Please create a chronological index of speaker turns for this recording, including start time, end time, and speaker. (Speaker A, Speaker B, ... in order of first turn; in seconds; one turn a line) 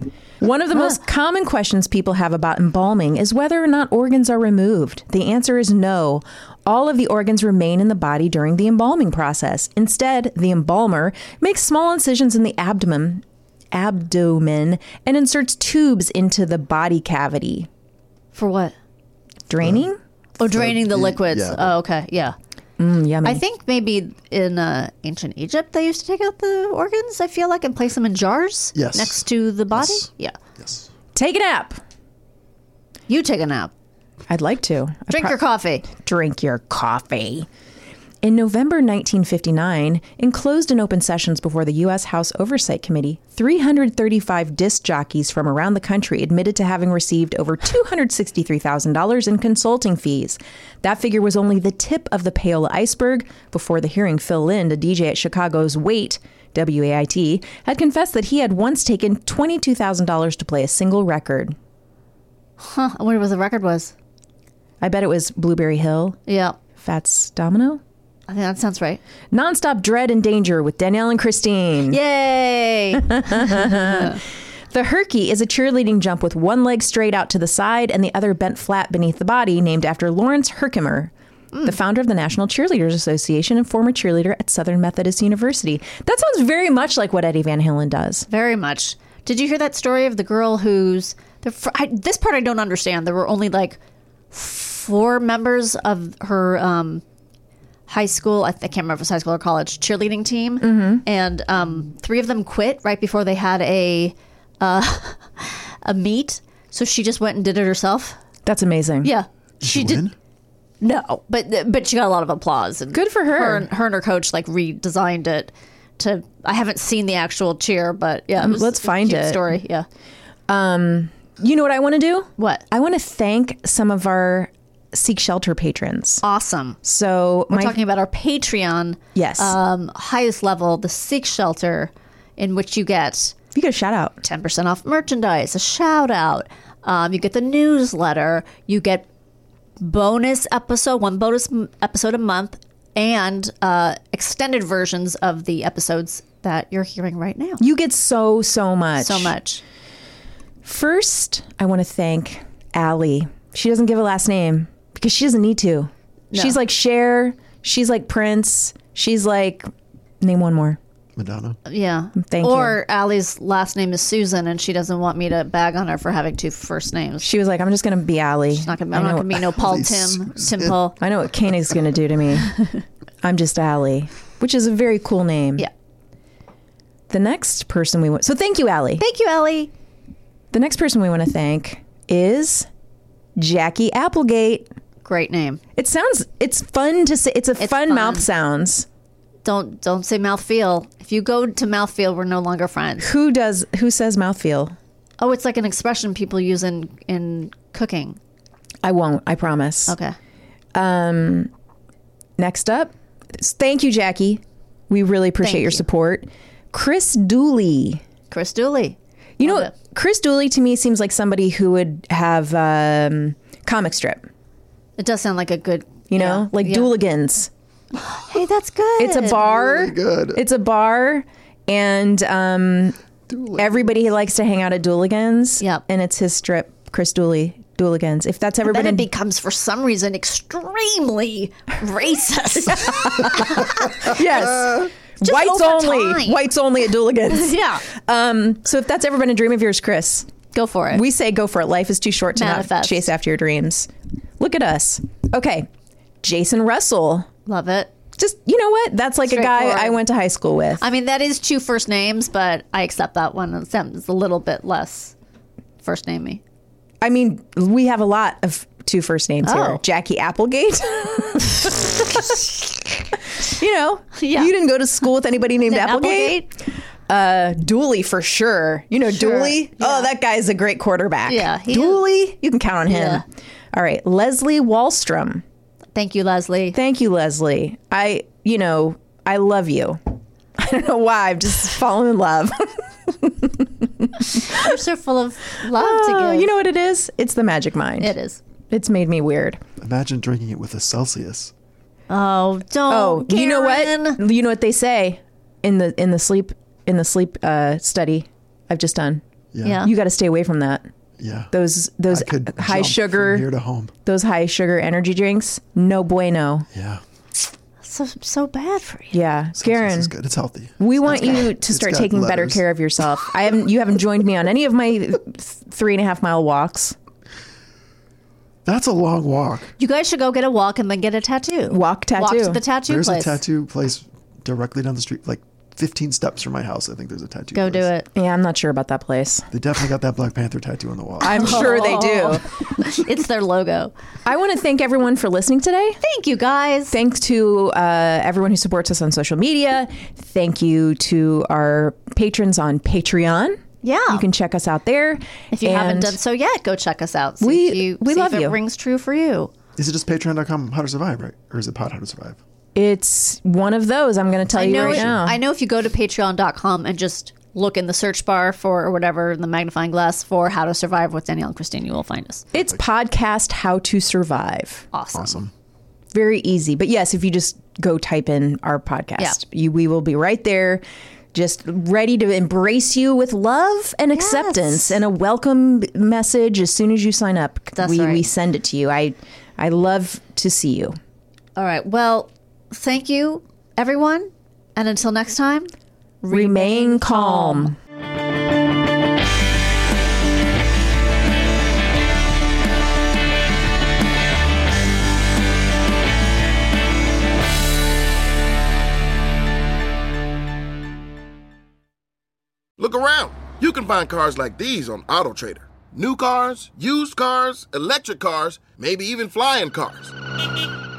Speaker A: 0.4-17.7
Speaker B: 18.3-18.8
Speaker A: 19.5-20.0
Speaker C: 19.6-19.9
Speaker B: 20.4-22.4
Speaker C: 20.4-21.8
Speaker A: 22.8-23.4
Speaker B: 23.2-30.4
Speaker C: 28.7-30.9
Speaker A: 31.1-31.8
Speaker B: 33.1-33.7
Speaker A: 34.3-37.5
Speaker B: 35.1-35.9
Speaker A: 38.2-61.6
Speaker B: 62.6-63.9
Speaker A: 64.8-66.2
Speaker B: 66.3-66.6
Speaker A: 66.8-67.8
Speaker B: 68.3-69.0
Speaker A: 69.3-72.0
Speaker B: 71.9-74.2
Speaker A: 73.1-81.1
Speaker A: 81.6-88.3
Speaker B: 88.3-93.8
Speaker B: 94.3-97.0
Speaker B: 97.9-108.2
Speaker A: 100.6-101.0
Speaker A: 108.5-109.1
Speaker B: 109.0-110.1
Speaker C: 109.6-110.1
Speaker B: 110.8-119.9
Speaker A: 112.9-113.7
Speaker A: 118.4-119.6
Speaker A: 120.5-126.2
Speaker B: 122.4-122.6
Speaker B: 126.2-126.8
Speaker A: 126.8-127.8
Speaker B: 127.5-133.3
Speaker A: 129.2-129.6
Speaker A: 133.5-134.2
Speaker B: 134.2-139.1
Speaker B: 139.8-147.6
Speaker A: 147.6-149.3
Speaker B: 149.0-149.6
Speaker A: 150.6-159.7
Speaker B: 156.3-156.6
Speaker A: 160.2-160.8
Speaker C: 161.2-161.6
Speaker B: 161.7-167.3
Speaker A: 162.2-162.8
Speaker A: 167.2-169.4
Speaker B: 168.6-171.0
Speaker C: 169.5-170.9
Speaker A: 171.0-172.6
Speaker A: 173.2-175.7
Speaker A: 177.1-179.0
Speaker B: 179.0-179.7
Speaker A: 180.5-182.7
Speaker A: 183.4-184.7
Speaker B: 185.0-185.6
Speaker A: 185.8-188.9
Speaker B: 187.6-188.3
Speaker B: 189.4-193.1
Speaker A: 193.0-194.8
Speaker B: 195.2-198.2
Speaker A: 198.8-199.9
Speaker B: 199.9-200.2
Speaker A: 200.8-201.5
Speaker A: 202.4-208.0
Speaker B: 205.4-205.9
Speaker B: 208.3-209.7
Speaker A: 209.4-214.3
Speaker B: 215.0-216.9
Speaker A: 216.1-217.5
Speaker B: 218.2-219.6
Speaker A: 219.0-223.0
Speaker C: 219.4-220.4
Speaker C: 223.3-224.0
Speaker A: 223.6-229.1
Speaker B: 228.6-234.4
Speaker A: 232.7-240.3
Speaker B: 235.2-236.4
Speaker B: 237.3-237.8
Speaker B: 240.5-241.0
Speaker A: 240.9-245.7
Speaker B: 242.4-243.1
Speaker A: 246.2-247.3
Speaker B: 247.5-247.9
Speaker A: 248.2-250.8
Speaker B: 249.2-250.0
Speaker B: 250.8-255.1
Speaker B: 255.8-256.4
Speaker A: 257.0-266.5
Speaker B: 259.4-259.8
Speaker B: 264.2-264.5
Speaker B: 265.7-266.5
Speaker A: 267.1-275.4
Speaker B: 269.1-270.1
Speaker B: 271.3-272.0
Speaker B: 272.9-273.2
Speaker B: 275.9-276.8
Speaker A: 276.7-280.0
Speaker A: 280.6-284.8
Speaker B: 284.4-286.5
Speaker A: 285.6-288.1
Speaker B: 288.0-288.4
Speaker A: 288.7-289.6
Speaker C: 289.8-291.5
Speaker B: 292.1-294.2
Speaker A: 292.9-299.2
Speaker C: 299.5-299.9
Speaker B: 299.6-299.9
Speaker A: 299.8-300.9
Speaker C: 301.2-301.5
Speaker A: 301.5-303.5
Speaker C: 302.1-303.9
Speaker A: 304.1-306.7
Speaker C: 306.7-307.0
Speaker B: 307.8-309.2
Speaker A: 309.1-310.1
Speaker C: 309.6-312.6
Speaker A: 310.8-317.0
Speaker B: 311.1-311.5
Speaker C: 318.6-319.7
Speaker B: 319.8-323.4
Speaker A: 321.7-322.6
Speaker C: 322.9-327.9
Speaker B: 327.5-328.1
Speaker A: 328.1-329.5
Speaker C: 329.5-331.9
Speaker A: 331.2-332.4
Speaker B: 331.2-333.9
Speaker A: 334.3-336.0
Speaker B: 336.0-337.0
Speaker A: 336.9-346.2
Speaker B: 343.8-344.2
Speaker B: 345.5-349.5
Speaker A: 347.4-348.6
Speaker C: 349.8-352.4
Speaker A: 352.8-355.4
Speaker B: 354.5-362.4
Speaker C: 354.9-355.2
Speaker A: 362.5-364.9
Speaker B: 364.9-365.4
Speaker C: 365.1-365.5
Speaker A: 366.1-381.0
Speaker B: 374.1-375.0
Speaker B: 377.8-378.2
Speaker B: 381.6-387.7
Speaker A: 386.3-387.8
Speaker D: 402.8-410.1